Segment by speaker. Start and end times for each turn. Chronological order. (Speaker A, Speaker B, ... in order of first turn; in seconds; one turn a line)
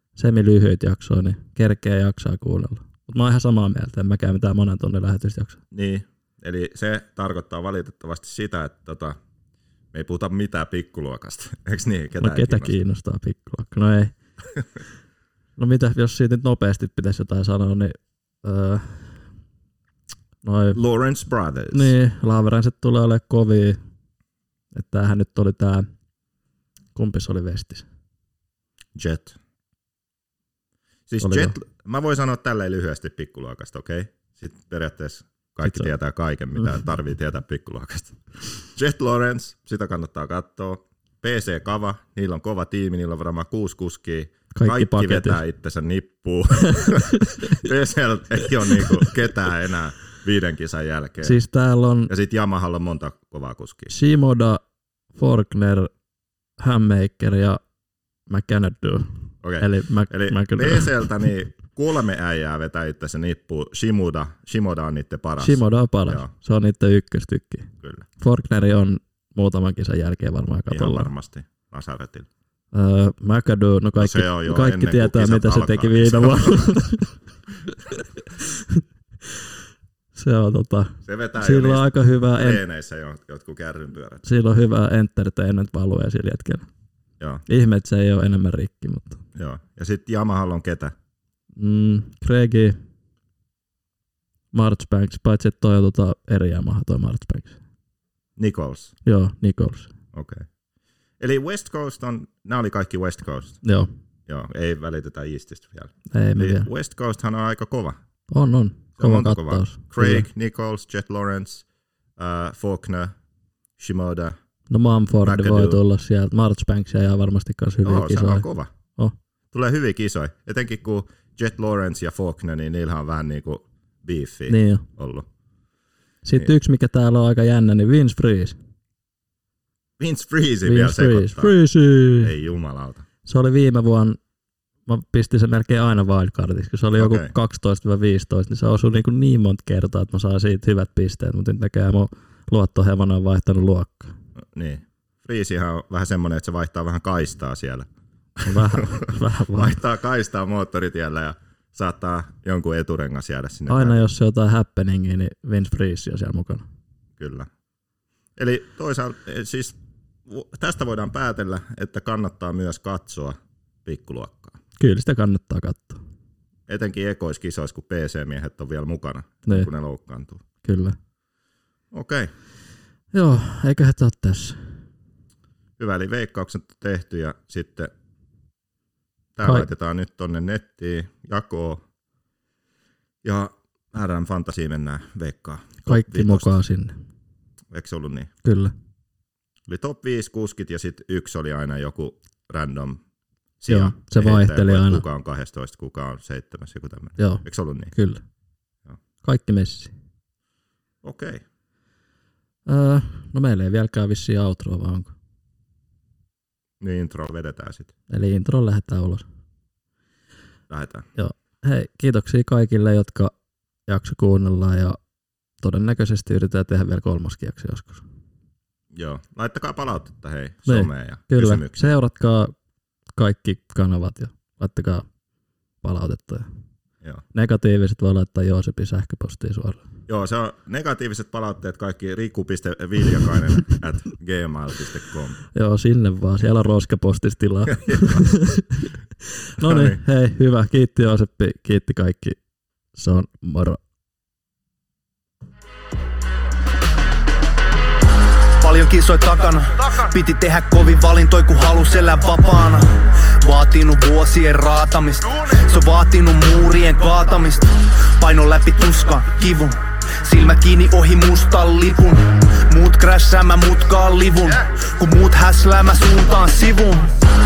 Speaker A: 0.1-5.6
Speaker B: 5.7-9.2
Speaker B: 9.9-12.8
Speaker A: 12.2-14.1
Speaker A: 15.6-19.3
Speaker A: 20.4-20.8
Speaker B: 20.7-21.9
Speaker A: 21.7-23.8
Speaker A: 24.7-25.9
Speaker A: 26.9-27.9
Speaker B: 28.9-29.4
Speaker B: 31.1-51.4
Speaker A: 31.2-31.6
Speaker A: 35.6-35.9
Speaker A: 44.5-45.4
Speaker A: 46.7-47.6
Speaker A: 48.7-49.1
Speaker A: 51.2-52.1
Speaker B: 52.1-53.9
Speaker A: 53.9-54.6
Speaker A: 55.1-55.9
Speaker A: 56.6-57.6
Speaker A: 58.3-61.1
Speaker B: 59.4-66.3
Speaker A: 65.4-71.1
Speaker B: 67.8-68.1
Speaker B: 70.7-72.3
Speaker A: 72.7-77.1
Speaker B: 74.0-76.8
Speaker A: 77.9-78.8
Speaker A: 80.1-82.6
Speaker B: 81.0-84.2
Speaker A: 84.2-86.7
Speaker A: 87.5-89.2
Speaker B: 89.3-90.9
Speaker A: 91.5-92.8
Speaker A: 94.5-97.6
Speaker B: 98.4-99.0
Speaker A: 99.0-99.9
Speaker B: 100.1-100.5
Speaker B: 101.2-103.6
Speaker A: 103.6-103.9
Speaker B: 104.3-108.0
Speaker A: 106.1-106.7
Speaker A: 108.3-110.3
Speaker B: 109.0-111.6
Speaker B: 112.2-113.1
Speaker B: 113.8-114.3
Speaker A: 114.7-119.1
Speaker B: 115.2-115.8
Speaker B: 117.8-118.7
Speaker B: 119.5-125.3
Speaker A: 124.5-124.9
Speaker A: 126.2-128.6
Speaker B: 130.0-131.6
Speaker A: 130.6-132.3
Speaker B: 132.1-133.1
Speaker A: 133.2-134.2
Speaker A: 134.8-144.1
Speaker B: 136.9-137.3
Speaker B: 144.5-147.9
Speaker B: 148.4-154.0
Speaker A: 148.4-149.8
Speaker A: 153.7-156.6
Speaker B: 157.2-157.5
Speaker B: 158.4-164.6
Speaker A: 164.8-166.0
Speaker B: 166.7-170.4
Speaker A: 170.6-171.0
Speaker B: 171.9-172.3
Speaker A: 173.1-174.8
Speaker B: 175.8-177.9
Speaker B: 179.3-181.8
Speaker A: 179.4-179.7
Speaker B: 183.2-186.6
Speaker A: 185.8-187.0
Speaker B: 187.7-188.3
Speaker A: 188.4-188.7
Speaker B: 189.7-193.0
Speaker B: 193.6-197.9
Speaker A: 193.7-195.0
Speaker A: 197.2-198.2
Speaker A: 199.2-199.9
Speaker B: 201.0-201.4
Speaker A: 202.7-205.1
Speaker B: 206.8-207.9
Speaker A: 208.1-209.2
Speaker B: 210.7-211.1
Speaker A: 211.2-213.3
Speaker A: 213.9-215.0
Speaker A: 215.6-218.0
Speaker B: 218.9-221.9
Speaker A: 220.7-222.5
Speaker A: 223.1-225.1
Speaker A: 225.8-226.5
Speaker A: 227.3-229.8
Speaker B: 230.1-235.4
Speaker A: 235.5-238.9
Speaker B: 237.7-238.2
Speaker A: 239.4-242.4
Speaker B: 239.6-240.0
Speaker A: 242.9-243.8
Speaker C: 248.6-267.1